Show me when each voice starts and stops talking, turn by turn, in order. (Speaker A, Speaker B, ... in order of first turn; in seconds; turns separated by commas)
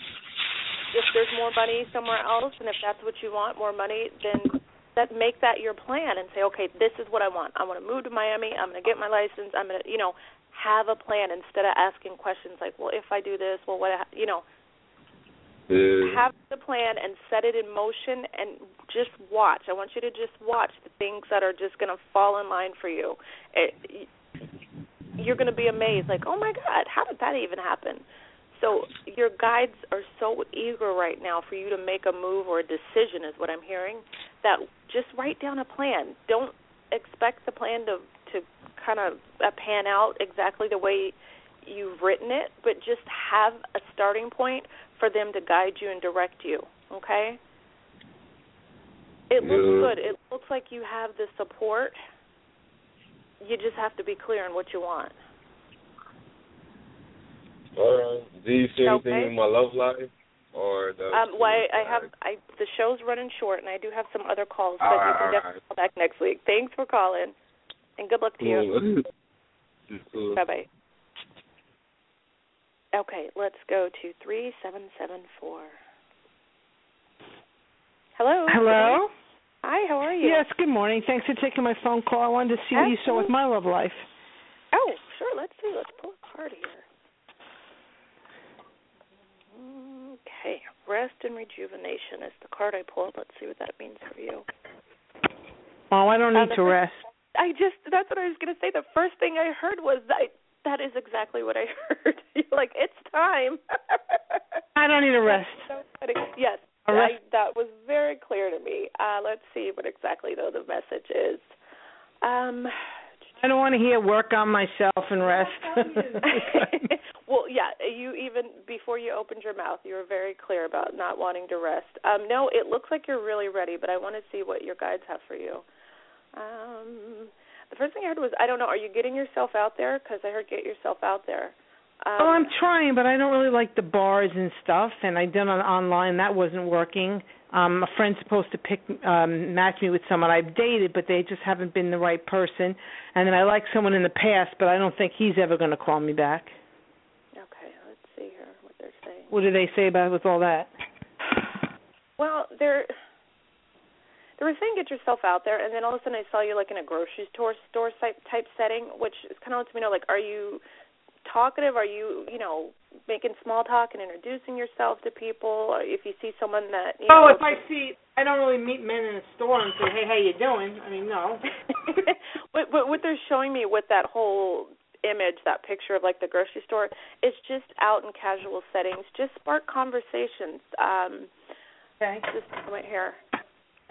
Speaker A: 0.9-14.4, Speaker B: 15.7-16.2, Speaker A: 16.0-24.1, Speaker A: 25.2-47.4, Speaker A: 49.3-52.0, Speaker B: 49.4-49.9, Speaker A: 53.4-55.1, Speaker B: 57.8-62.1, Speaker A: 58.8-59.3, Speaker A: 61.1-67.3, Speaker B: 64.8-65.6, Speaker A: 68.0-68.7, Speaker B: 68.4-69.1, Speaker B: 69.9-70.4, Speaker A: 70.3-70.7, Speaker A: 72.9-75.8, Speaker A: 78.2-79.0, Speaker C: 78.5-79.1, Speaker A: 79.6-80.4, Speaker C: 80.2-84.1, Speaker A: 82.7-83.3, Speaker A: 84.7-86.9, Speaker A: 89.5-94.5, Speaker C: 95.9-97.0, Speaker A: 96.3-96.8, Speaker A: 97.3-104.4, Speaker C: 104.8-105.7, Speaker A: 105.2-111.5, Speaker C: 106.9-107.1, Speaker A: 112.2-112.8, Speaker C: 113.4-116.9, Speaker A: 115.4-115.6, Speaker A: 116.2-125.7, Speaker A: 126.3-132.5, Speaker C: 132.2-146.6, Speaker A: 147.3-149.3, Speaker C: 149.3-150.7, Speaker A: 152.2-152.9, Speaker A: 154.4-160.6, Speaker A: 161.2-167.6, Speaker C: 167.1-171.5, Speaker A: 171.8-181.3, Speaker C: 182.0-182.3, Speaker A: 182.3-183.2